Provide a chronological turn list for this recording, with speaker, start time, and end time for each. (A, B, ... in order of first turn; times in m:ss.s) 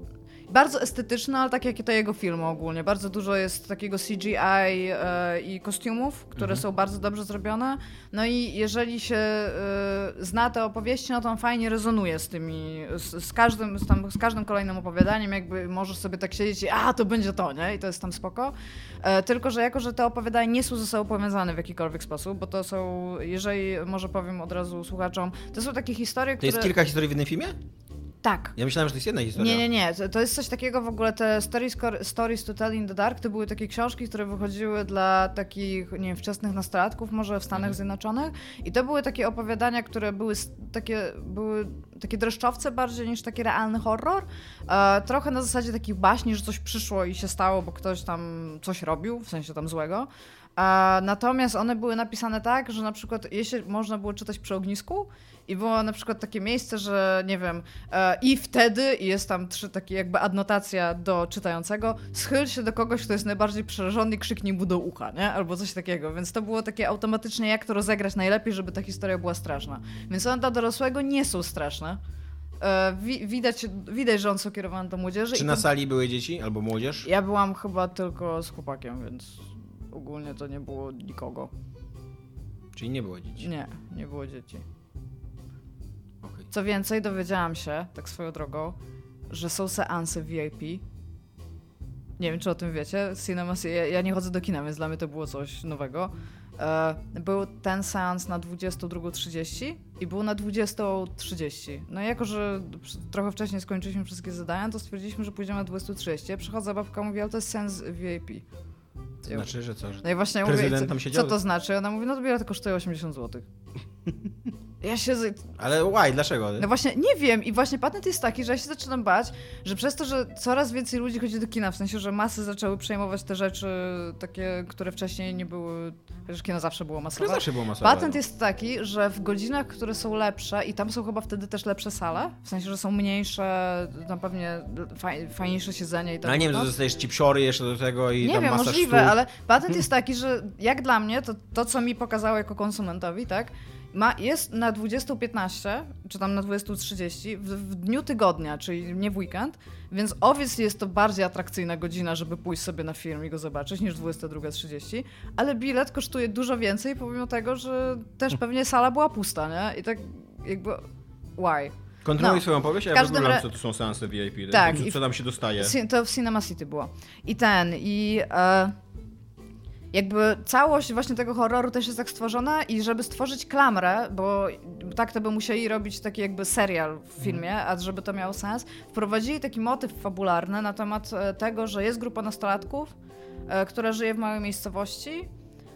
0:00.5-0:26.7 A
0:26.4-0:27.6 B
0:28.2-0:28.6 A
0:28.6-0:29.6 B
0:29.4-1:12.0 A
1:12.6-1:15.7 A
1:15.3-1:17.1 B
1:17.0-1:21.5 A
1:22.7-1:23.5 B
1:23.4-1:24.6 A
1:26.2-1:26.5 B
1:26.5-1:28.8 A
1:29.3-1:30.8 A
1:32.2-1:48.4 A
1:49.2-1:49.5 A
1:49.3-1:51.4 B
1:50.0-1:53.5 A
1:54.8-1:55.6 A
1:55.6-1:56.7 B
1:56.6-2:16.7 A
2:07.2-2:08.2 B
2:16.2-2:19.2 B
2:18.2-2:40.8 A
2:41.4-2:43.4 A
2:42.0-2:45.7 B
2:44.5-2:45.0 A
2:45.6-2:48.8 A
2:49.9-3:03.0 A
3:03.5-3:05.3 A